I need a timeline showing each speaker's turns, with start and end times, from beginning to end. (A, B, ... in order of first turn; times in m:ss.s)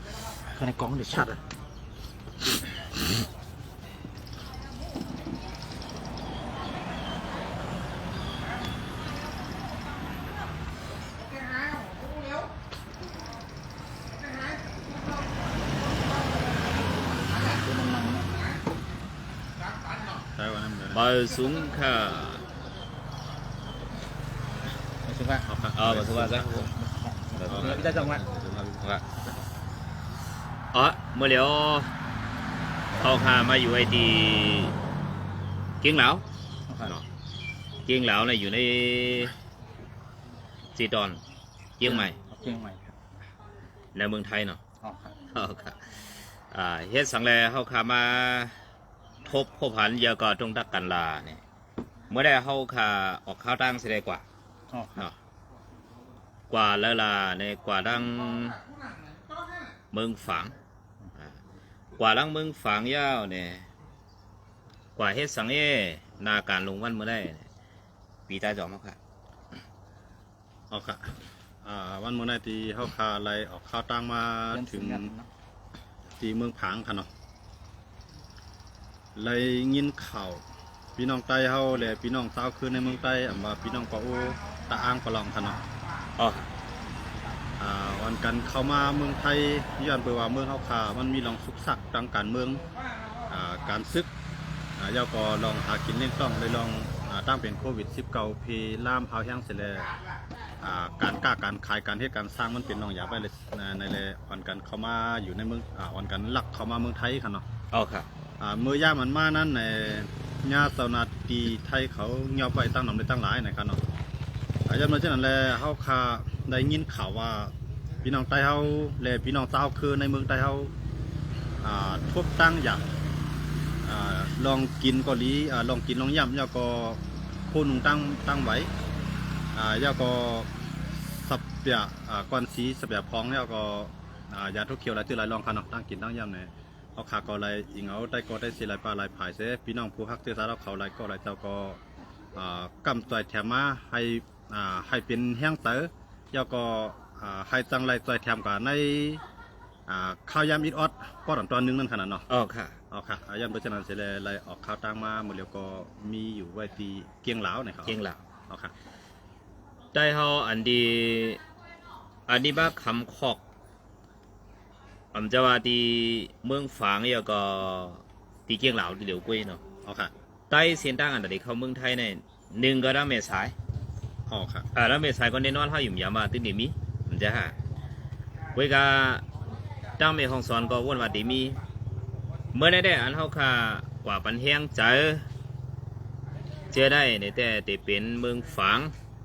0:00.5-0:01.4 A
0:17.4-0:18.4 A
0:20.4-0:21.0 B
0:20.9-0:22.4 C
0:25.0-0:25.5 A
0:25.5-0:26.7 B
0:25.7-0:26.7 C
0:26.7-0:28.2 A
0:27.4-0:27.9 C
0:27.4-0:29.0 B
0:30.7-0:31.9 C
0:33.0-0:34.7 C
0:35.8-0:36.2 C
0:36.7-0:37.0 A
0:37.9-0:39.3 C
0:40.8-0:41.2 C
0:41.8-0:42.2 C
0:41.8-0:43.0 A
0:44.0-0:44.6 C
0:44.8-0:45.1 A
0:45.3-0:45.8 C
0:46.5-0:48.6 C
0:49.2-0:51.4 C
0:52.1-0:54.2 C
0:54.7-0:55.1 A
0:56.5-0:58.6 C
0:59.9-1:00.6 C
1:02.0-1:03.7 C
1:05.0-1:07.5 C
1:08.3-1:09.0 C
1:10.7-1:15.1 B
1:14.5-1:15.3 A
1:16.2-1:17.1 B
1:19.2-1:20.4 B
1:21.0-1:25.6 B
1:26.2-1:26.5 C
1:27.6-1:32.6 B
1:33.3-1:34.1 B
1:34.8-1:39.9 B
1:40.6-1:47.4 B
1:47.7-1:48.1 C
1:48.4-1:53.8 B
1:54.7-2:00.7 B
2:01.6-2:02.9 B
2:03.8-2:08.7 B
2:09.5-2:10.5 B
2:11.1-2:21.8 B
2:22.4-2:29.2 B
2:29.9-2:32.2 B
2:32.3-2:32.8 C
2:32.9-2:38.7 B
2:37.9-2:38.2 C
2:39.9-2:41.4 C
2:42.3-2:43.4 C
2:45.1-2:49.6 C
2:49.8-2:50.1 B
2:50.5-2:53.5 C
2:54.3-2:54.7 B
2:54.8-2:57.5 C
2:58.6-2:59.2 C
3:00.0-3:01.6 C
3:02.5-3:05.3 C
3:06.7-3:08.9 C